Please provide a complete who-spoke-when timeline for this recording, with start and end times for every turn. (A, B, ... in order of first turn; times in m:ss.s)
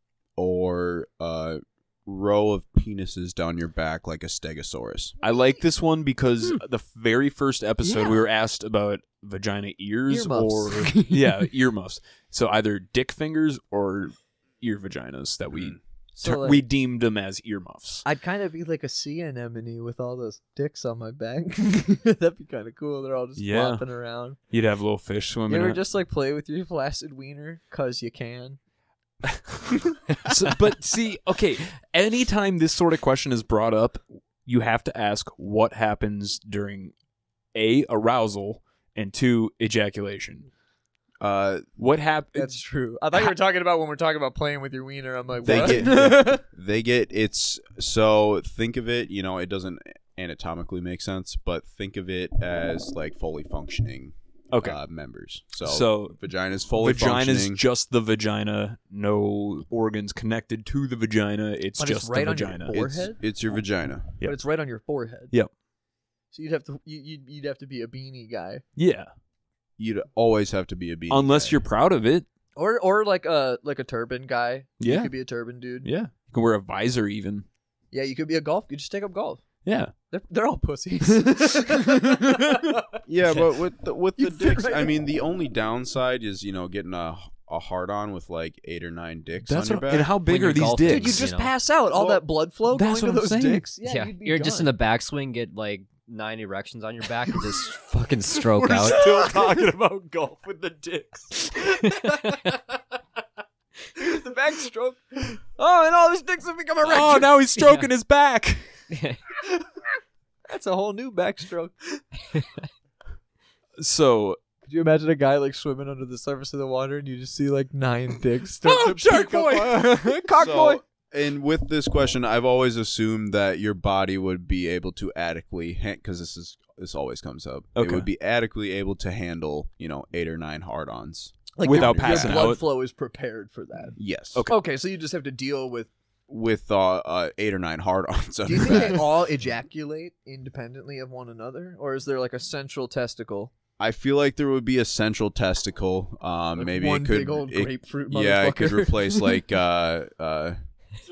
0:00.4-0:05.2 A
0:05.2-0:18.0 B
0:10.1-0:11.1 C
0:16.1-0:16.6 C
0:18.0-0:24.4 C
0:23.4-0:23.9 B
0:24.4-0:25.8 B
0:25.5-0:28.6 C
0:30.2-0:37.0 B
0:37.5-0:40.5 B
0:41.2-0:41.7 A
0:41.8-0:42.6 B
0:42.4-0:46.4 C
0:45.4-0:46.0 B
0:45.4-0:57.6 A
0:54.5-0:54.8 B
0:55.6-0:56.2 B
0:56.8-1:03.0 B
1:01.8-1:03.2 C
1:03.2-1:04.2 A
1:04.2-1:05.3 C
1:06.3-1:08.6 C
1:08.8-1:09.1 B
1:09.8-1:11.6 A
1:11.1-1:12.3 B
1:12.6-1:15.9 C
1:14.8-1:15.1 B
1:15.8-1:17.5 B
1:17.9-1:19.4 C
1:19.6-1:19.9 B
1:20.1-1:22.8 C
1:21.2-1:22.3 B
1:23.1-1:30.1 A
1:24.2-1:24.9 C
1:29.5-1:31.2 B
1:30.2-1:31.5 D
1:30.9-1:34.7 C
1:32.0-1:32.2 A
1:32.7-1:33.6 B
1:33.8-1:39.1 D
1:38.6-1:41.5 B
1:38.8-1:39.7 C
1:40.6-1:41.3 C
1:41.8-1:42.4 D
1:44.0-1:47.4 C
1:46.8-1:48.7 B
1:47.6-1:47.9 D
1:48.9-1:49.2 D
1:50.5-1:51.7 C
1:53.8-1:54.4 B
1:54.6-2:00.8 C
1:58.6-2:00.2 B
2:00.4-2:12.6 A
2:07.8-2:08.1 B
2:11.6-2:14.0 C
2:11.6-2:12.6 B
2:14.0-2:14.5 A
2:14.5-2:15.9 C
2:16.3-2:19.1 A
2:18.5-2:23.5 C
2:23.8-2:30.6 A
2:26.6-2:29.4 C